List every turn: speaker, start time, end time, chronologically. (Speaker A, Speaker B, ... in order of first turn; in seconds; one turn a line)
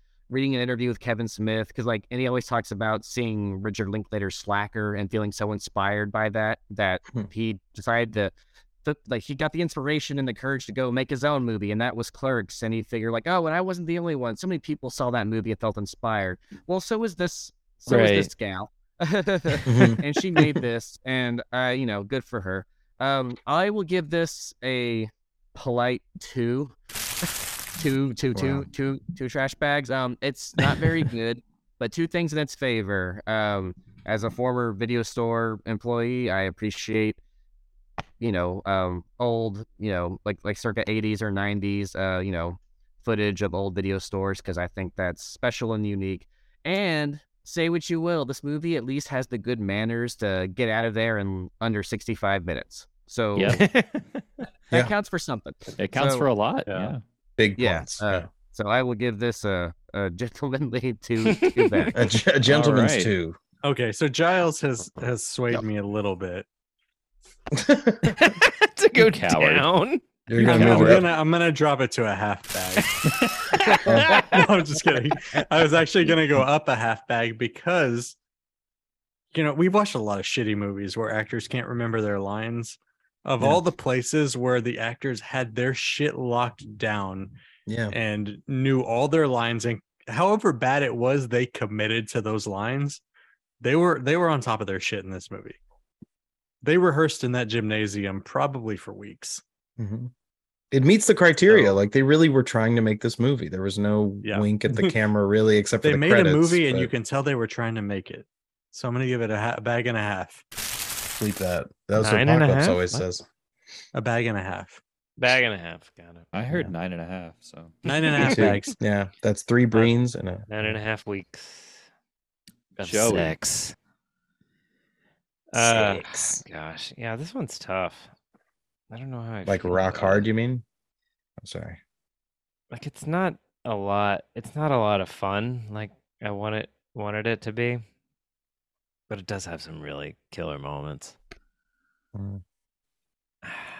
Speaker A: 0.3-26.8
Speaker B: 17.9-18.3
Speaker C: 19.6-20.0
Speaker A: 27.8-37.2
Speaker C: 28.3-28.7
Speaker A: 38.2-53.6
Speaker D: 53.3-53.6
Speaker B: 53.6-54.0
Speaker A: 54.7-56.3
Speaker D: 55.8-57.0
Speaker E: 56.7-56.9
Speaker C: 57.4-58.3
Speaker A: 57.6-61.9
Speaker B: 61.2-62.0
Speaker C: 61.9-63.4
Speaker D: 62.5-63.1
Speaker E: 63.6-66.5
Speaker C: 67.5-68.3
Speaker B: 68.1-70.9
Speaker D: 69.0-69.7
Speaker C: 70.3-71.1
Speaker E: 70.3-73.0
Speaker B: 73.5-74.4
Speaker C: 73.8-74.2
Speaker E: 74.1-78.2
Speaker E: 79.3-87.3
Speaker C: 87.7-87.9
Speaker E: 87.9-93.0
Speaker E: 93.6-95.6
Speaker E: 96.6-99.4
Speaker C: 99.8-100.1
Speaker C: 100.7-106.9
Speaker E: 101.5-101.8
Speaker E: 104.2-104.9
Speaker E: 105.8-110.4
Speaker C: 111.2-113.2
Speaker B: 112.0-113.0
Speaker E: 113.9-114.8
Speaker B: 115.2-116.3
Speaker D: 116.3-117.7
Speaker E: 117.8-118.7
Speaker B: 117.9-118.4
Speaker C: 118.3-120.7
Speaker B: 120.5-121.9
Speaker D: 122.8-123.3
Speaker B: 122.8-123.7
Speaker B: 125.5-128.1
Speaker C: 125.5-126.4
Speaker B: 128.9-130.3
Speaker C: 129.4-130.6
Speaker C: 131.4-131.8
Speaker B: 132.7-137.8
Speaker B: 139.1-141.2
Speaker C: 142.1-142.4